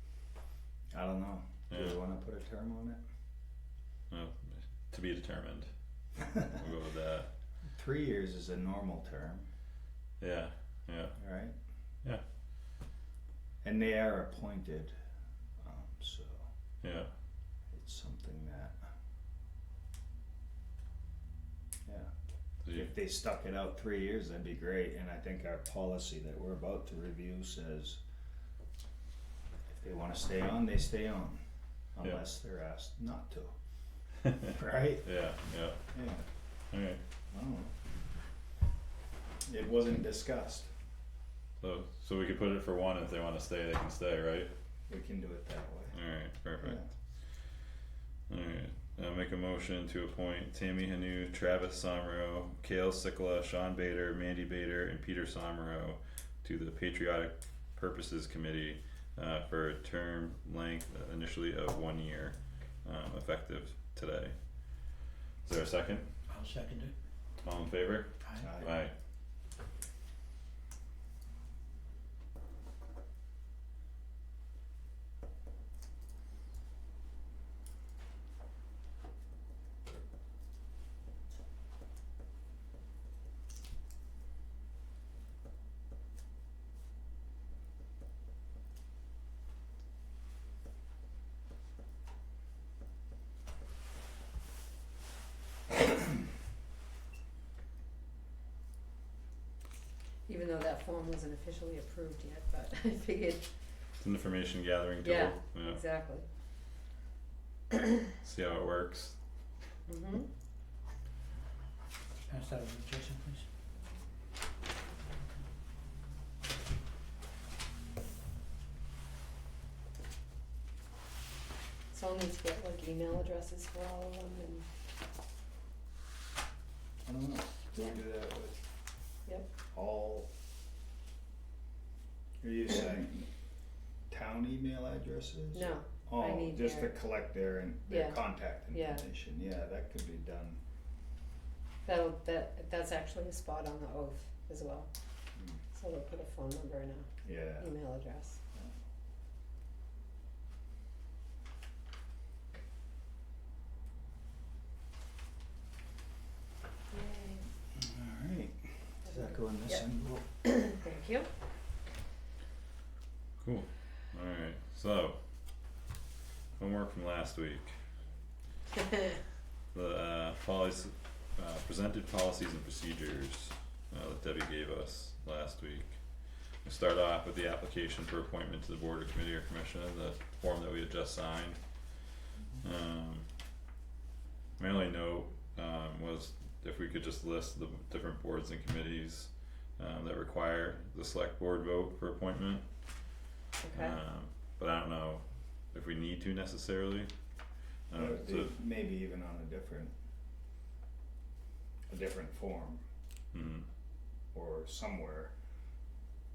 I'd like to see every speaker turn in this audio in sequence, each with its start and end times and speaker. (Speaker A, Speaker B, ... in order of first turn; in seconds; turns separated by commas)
Speaker A: 0.9-3.0, Speaker B: 1.7-2.0, Speaker B: 4.1-5.7, Speaker B: 6.4-7.3, Speaker A: 7.7-9.5, Speaker B: 10.2-11.2, Speaker A: 11.2-11.5, Speaker A: 13.6-14.9, Speaker A: 15.6-16.5, Speaker B: 16.8-17.1, Speaker A: 17.7-18.8, Speaker A: 21.9-22.1, Speaker B: 22.6-22.9, Speaker A: 22.7-28.0, Speaker A: 29.7-31.4, Speaker A: 31.9-33.5, Speaker A: 34.4-35.0, Speaker B: 35.0-35.8, Speaker A: 35.9-36.3, Speaker B: 36.7-37.0, Speaker A: 37.3-37.7, Speaker A: 39.5-40.7, Speaker B: 41.6-44.5, Speaker A: 44.9-46.0, Speaker B: 45.9-46.8, Speaker A: 46.6-46.9, Speaker B: 48.3-64.3, Speaker B: 65.5-66.1, Speaker C: 66.3-66.9, Speaker B: 67.4-68.9, Speaker C: 68.2-68.5, Speaker A: 68.4-68.7, Speaker D: 100.3-103.4, Speaker B: 104.0-105.8, Speaker D: 105.0-106.2, Speaker B: 108.2-109.2, Speaker D: 109.9-110.3, Speaker C: 112.3-113.5, Speaker D: 121.9-124.7, Speaker A: 127.0-128.6, Speaker A: 129.7-130.3, Speaker A: 132.4-133.3, Speaker A: 134.1-140.6, Speaker D: 135.5-136.9, Speaker D: 137.9-138.2, Speaker D: 138.7-139.0, Speaker D: 141.8-144.9, Speaker A: 145.4-145.6, Speaker D: 145.7-148.4, Speaker A: 147.2-147.7, Speaker D: 156.9-157.4, Speaker A: 157.7-160.2, Speaker D: 159.1-159.8, Speaker D: 160.4-161.3, Speaker B: 163.4-165.2, Speaker B: 166.6-167.7, Speaker B: 169.7-175.9, Speaker B: 176.7-181.6, Speaker B: 182.6-183.3, Speaker B: 184.6-192.7, Speaker D: 193.6-194.0, Speaker B: 193.7-197.1, Speaker B: 197.9-198.6, Speaker A: 197.9-199.9, Speaker A: 201.9-202.8, Speaker B: 203.3-203.7, Speaker A: 204.3-205.3